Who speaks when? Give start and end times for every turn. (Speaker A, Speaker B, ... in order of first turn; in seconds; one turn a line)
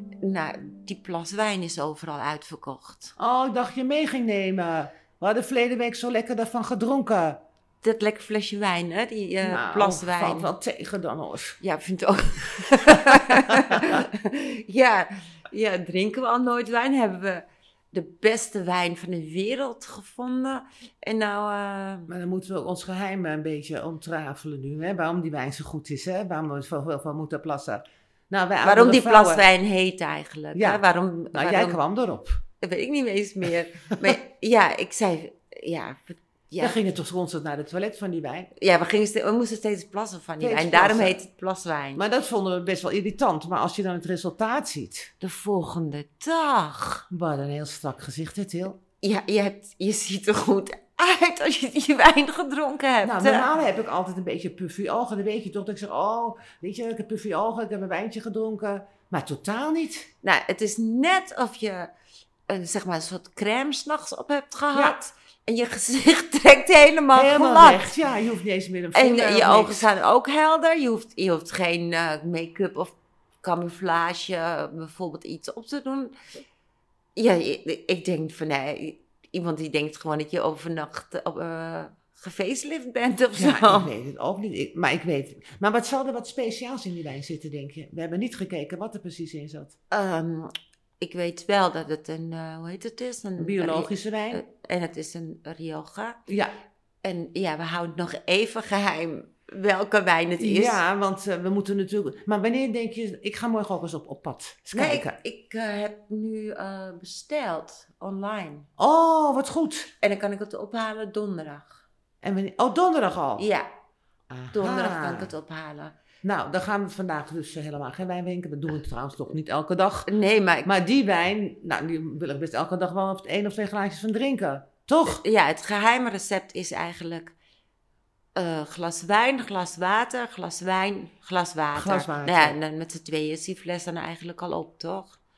Speaker A: 0.2-3.1
Speaker B: 3.2-7.4
Speaker A: 7.8-10.5
Speaker B: 9.4-11.6
Speaker A: 11.6-22.1
Speaker B: 13.1-14.0
Speaker B: 22.1-29.4
Speaker A: 28.6-31.8
Speaker B: 30.6-30.8
Speaker B: 31.3-32.4
Speaker A: 32.6-36.8
Speaker B: 36.6-38.5
Speaker A: 38.5-42.0
Speaker B: 40.4-41.2
Speaker B: 42.0-45.1
Speaker A: 45.2-47.0
Speaker B: 47.1-48.8
Speaker A: 49.0-53.5
Speaker B: 53.0-60.1
Speaker A: 60.2-61.9
Speaker A: 62.5-68.0
Speaker B: 67.1-69.9
Speaker A: 68.9-76.2
Speaker A: 77.2-83.9
Speaker B: 83.3-89.7
Speaker A: 89.9-90.5
Speaker A: 91.0-96.2
Speaker B: 93.4-94.4
Speaker A: 97.0-100.8
Speaker B: 100.4-105.2
Speaker A: 104.7-108.7
Speaker B: 108.8-109.9
Speaker A: 110.0-111.8
Speaker B: 112.2-113.4
Speaker A: 113.4-113.7
Speaker B: 114.3-115.3
Speaker A: 114.5-116.0
Speaker B: 116.2-120.1
Speaker A: 120.1-120.7
Speaker B: 120.6-125.2
Speaker A: 125.1-127.3
Speaker A: 128.4-135.2
Speaker B: 131.7-132.6